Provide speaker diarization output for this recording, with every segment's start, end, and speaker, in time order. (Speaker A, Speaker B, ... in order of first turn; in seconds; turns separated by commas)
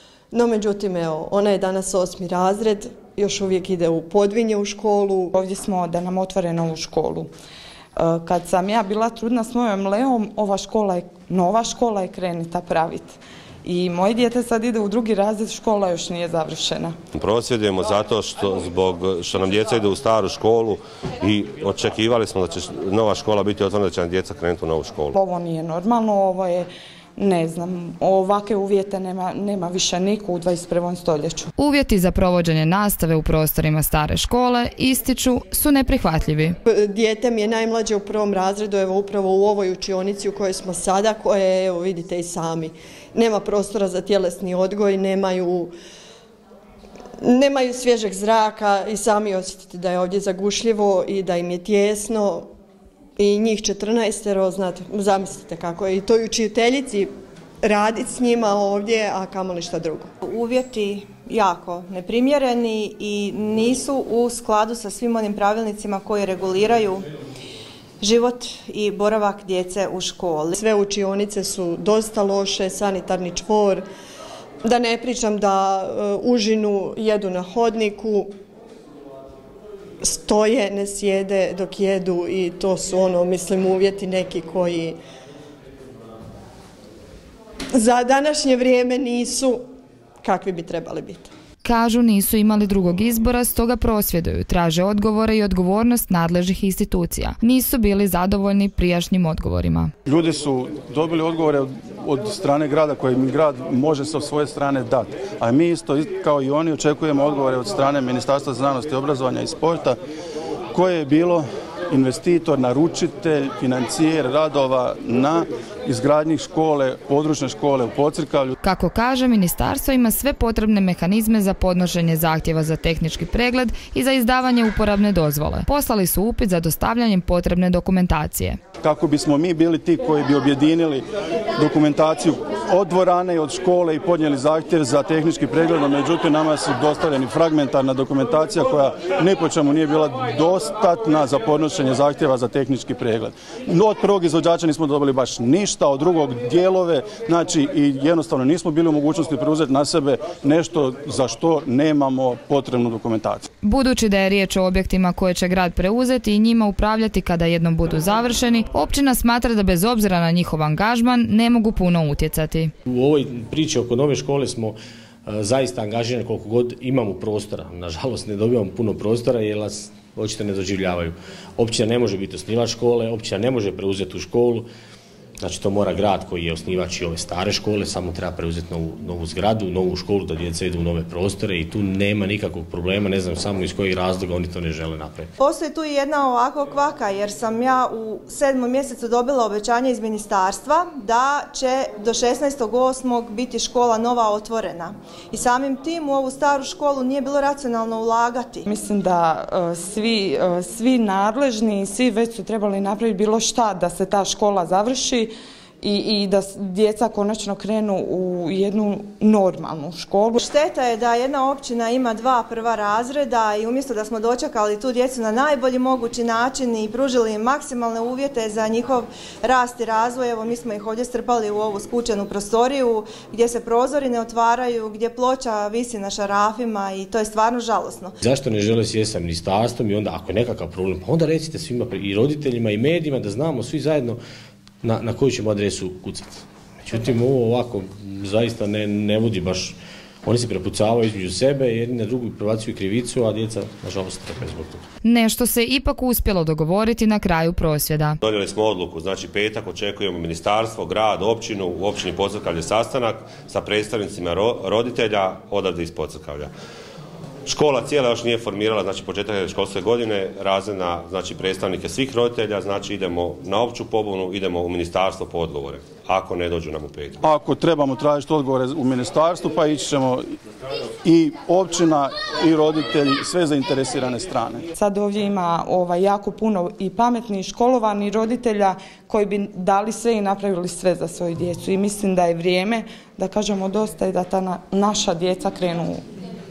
Speaker A: 0.3-5.3, Speaker B: 5.3-7.3, Speaker B: 8.0-16.9, Speaker C: 17.1-25.1, Speaker B: 25.1-31.5, Speaker D: 31.6-36.5, Speaker A: 36.6-45.7, Speaker A: 47.2-52.5, Speaker A: 53.2-57.1, Speaker A: 57.6-60.1, Speaker E: 60.2-67.0, Speaker E: 68.0-70.6, Speaker A: 70.6-73.8, Speaker A: 74.6-78.3, Speaker A: 80.0-85.0, Speaker A: 87.7-89.6, Speaker A: 90.2-91.3, Speaker D: 91.6-99.9, Speaker F: 100.0-110.0, Speaker F: 110.7-118.5, Speaker D: 118.6-128.6, Speaker F: 128.8-131.0, Speaker F: 131.6-153.4, Speaker D: 153.6-162.7, Speaker G: 162.8-174.7, Speaker G: 175.4-185.3, Speaker E: 185.4-198.7, Speaker B: 198.7-210.4, Speaker E: 210.3-228.1, Speaker G: 228.2-234.2, Speaker G: 234.8-244.8, Speaker D: 245.0-248.2, Speaker C: 248.2-256.5, Speaker C: 257.4-267.2, Speaker F: 267.2-270.4, Speaker F: 271.0-274.6, Speaker B: 274.8-286.0